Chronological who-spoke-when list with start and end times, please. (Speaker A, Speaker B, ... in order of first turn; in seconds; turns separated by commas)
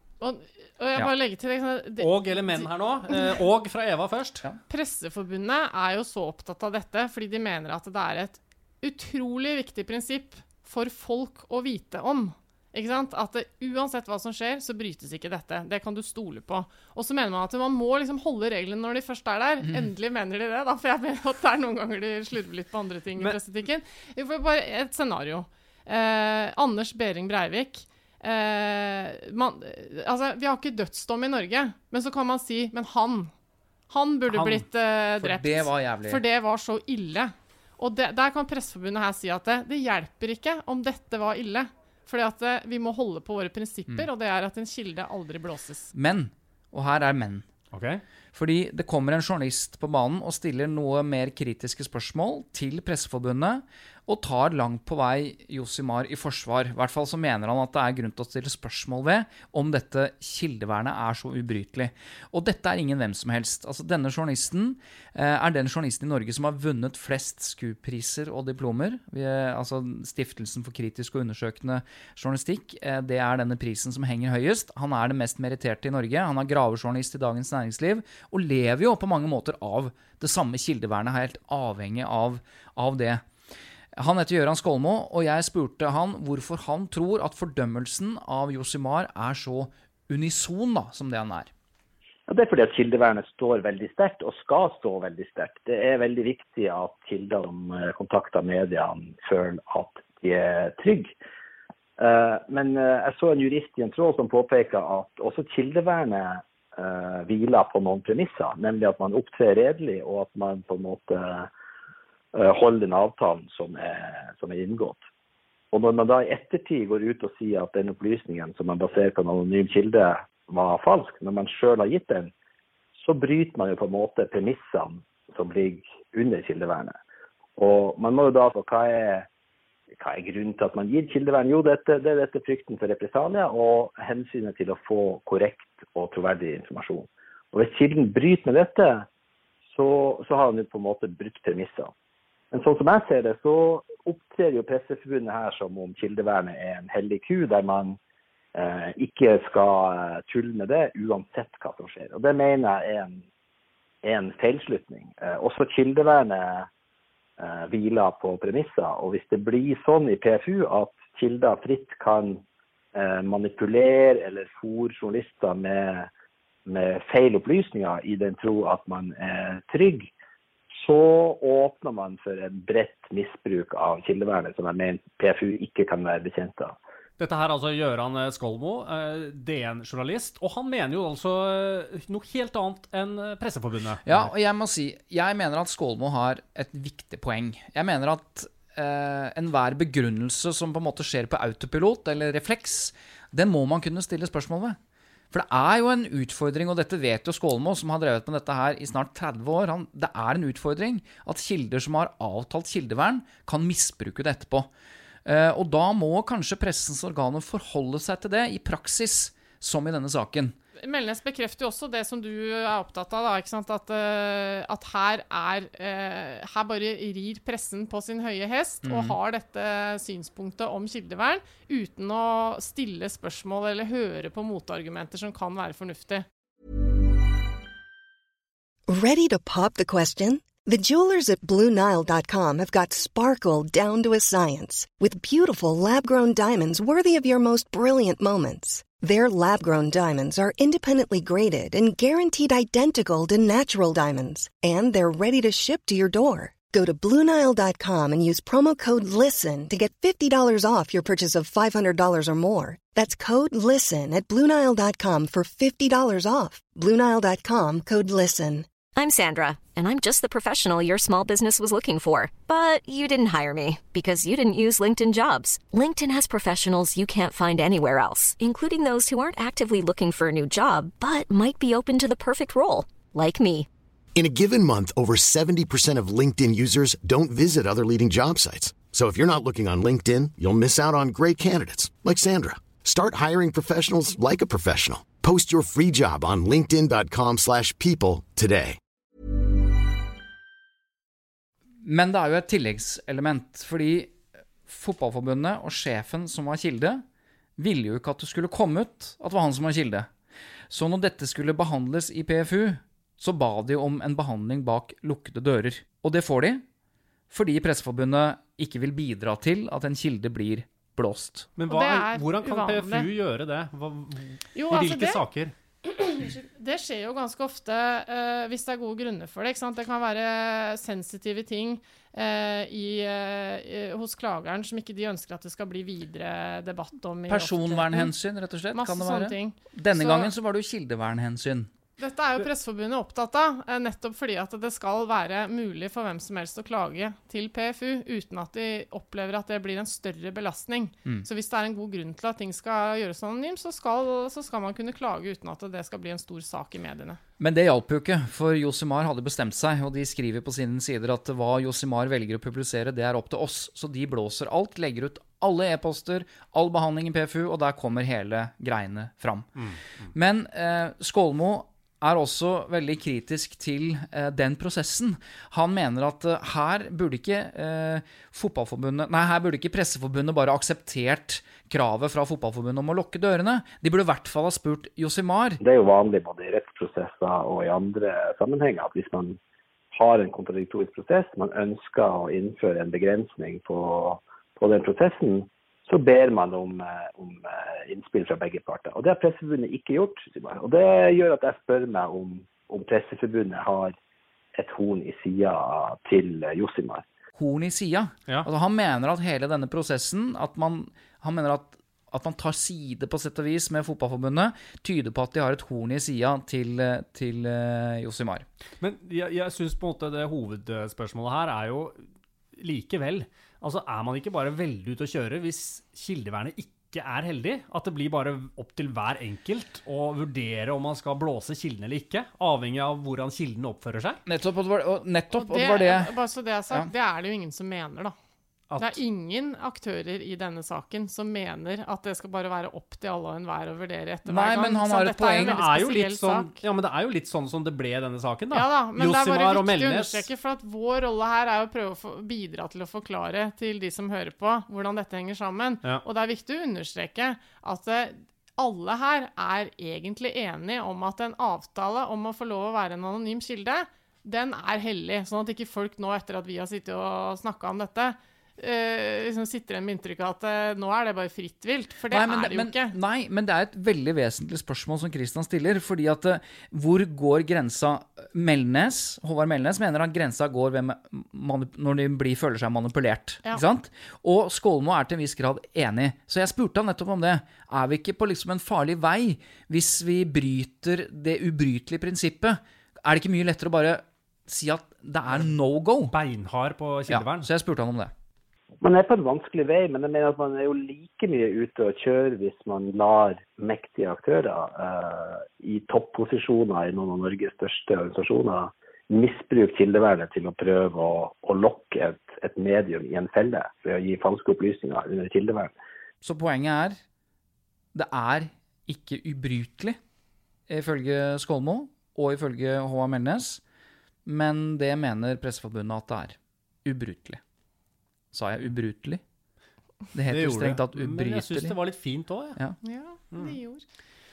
Speaker A: 0.2-3.4, Speaker B: 2.0-4.4, Speaker A: 4.7-33.3, Speaker C: 19.6-19.9, Speaker A: 33.9-45.9, Speaker C: 34.3-34.6, Speaker C: 35.2-36.2, Speaker C: 45.9-47.5, Speaker B: 47.7-48.0, Speaker C: 48.3-83.2, Speaker C: 84.0-91.5, Speaker D: 92.3-101.1, Speaker D: 102.0-111.5, Speaker D: 112.3-115.0, Speaker D: 115.7-122.3, Speaker D: 123.0-127.0, Speaker D: 127.6-129.3, Speaker D: 130.0-139.1, Speaker D: 139.7-141.9, Speaker D: 142.5-148.0, Speaker D: 148.5-153.2, Speaker D: 154.0-156.7, Speaker D: 157.4-162.4, Speaker D: 162.9-166.1, Speaker D: 166.7-170.1, Speaker D: 170.8-176.8, Speaker B: 177.2-184.2, Speaker C: 184.0-194.8, Speaker C: 195.3-204.7, Speaker C: 205.2-210.6, Speaker A: 210.8-226.2, Speaker C: 218.8-219.2, Speaker E: 228.9-258.7, Speaker F: 258.9-273.7, Speaker G: 274.1-288.8, Speaker C: 291.8-294.1, Speaker C: 294.7-297.0, Speaker C: 297.6-300.1, Speaker C: 300.7-306.6, Speaker C: 307.3-311.5, Speaker B: 311.6-315.5, Speaker A: 311.7-313.1, Speaker A: 314.5-315.2, Speaker A: 315.8-328.1, Speaker C: 327.3-331.7, Speaker A: 328.7-330.3, Speaker A: 332.0-347.2, Speaker C: 347.4-359.6, Speaker B: 359.6-360.1, Speaker C: 360.1-375.6, Speaker D: 375.6-379.4, Speaker D: 379.9-393.9, Speaker D: 394.5-397.0, Speaker C: 397.3-408.4, Speaker B: 408.8-412.0, Speaker B: 412.6-424.2, Speaker C: 424.2-426.1, Speaker A: 425.3-428.1, Speaker B: 428.7-429.0, Speaker A: 428.8-436.6, Speaker C: 434.3-435.6, Speaker B: 435.4-440.3, Speaker A: 438.5-462.9, Speaker C: 462.1-486.1, Speaker B: 486.1-487.5, Speaker C: 487.1-488.1, Speaker D: 488.8-505.7, Speaker C: 506.2-507.0, Speaker C: 507.9-510.0, Speaker C: 510.7-513.6, Speaker C: 514.2-517.4, Speaker C: 518.3-519.2, Speaker C: 520.1-521.8, Speaker B: 520.3-522.6, Speaker A: 522.8-523.8